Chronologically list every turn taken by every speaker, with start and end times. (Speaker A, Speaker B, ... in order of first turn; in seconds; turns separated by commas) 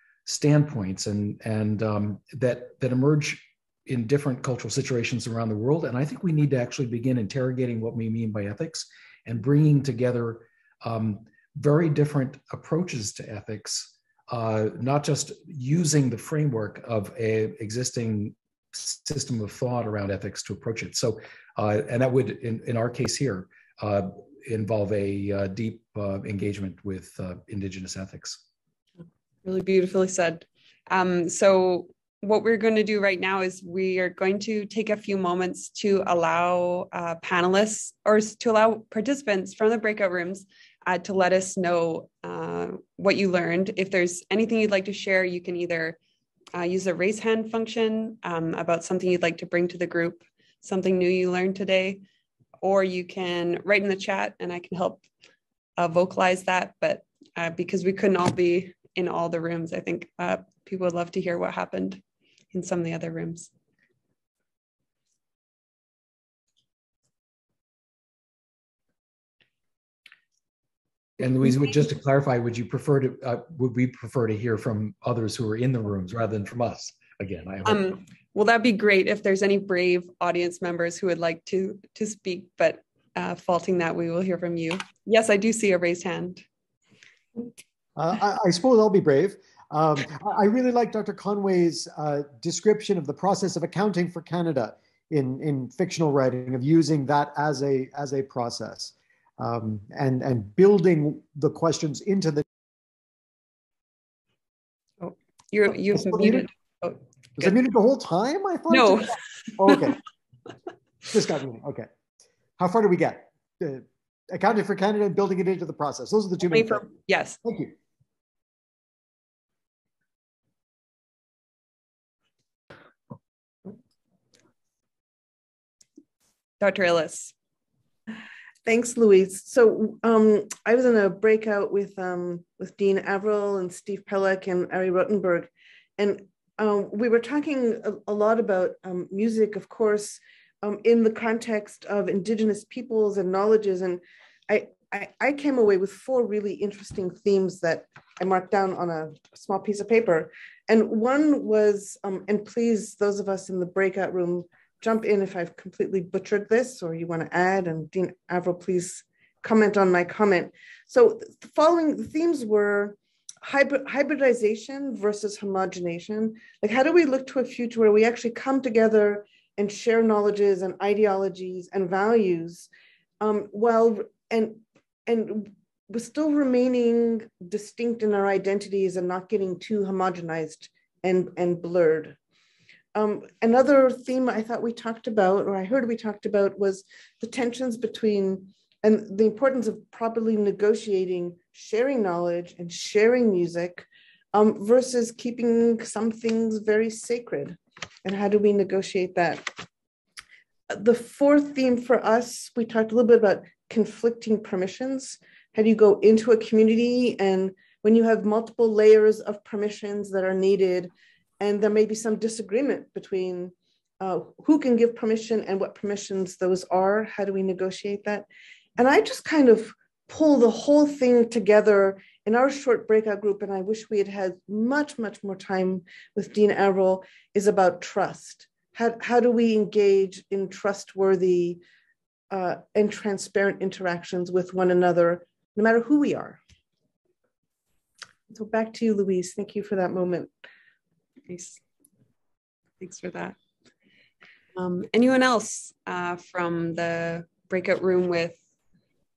Speaker A: 0.3-28.4, Speaker B: 29.4-46.0, Speaker B: 46.5-52.0, Speaker B: 52.6-55.0, Speaker B: 55.8-62.0, Speaker B: 62.5-63.5, Speaker A: 71.2-77.9, Speaker B: 77.7-86.4, Speaker C: 88.0-102.4, Speaker B: 105.0-107.6, Speaker C: 105.9-106.5, Speaker C: 107.4-110.0, Speaker B: 108.7-109.2, Speaker C: 111.1-111.9, Speaker C: 112.6-117.7, Speaker B: 116.5-117.4, Speaker B: 126.6-127.3, Speaker D: 128.7-172.7, Speaker D: 173.2-182.2, Speaker D: 182.9-199.5, Speaker D: 200.7-231.6, Speaker D: 232.3-236.4, Speaker D: 238.3-240.3, Speaker B: 241.3-241.6, Speaker B: 242.8-243.3, Speaker B: 244.6-248.4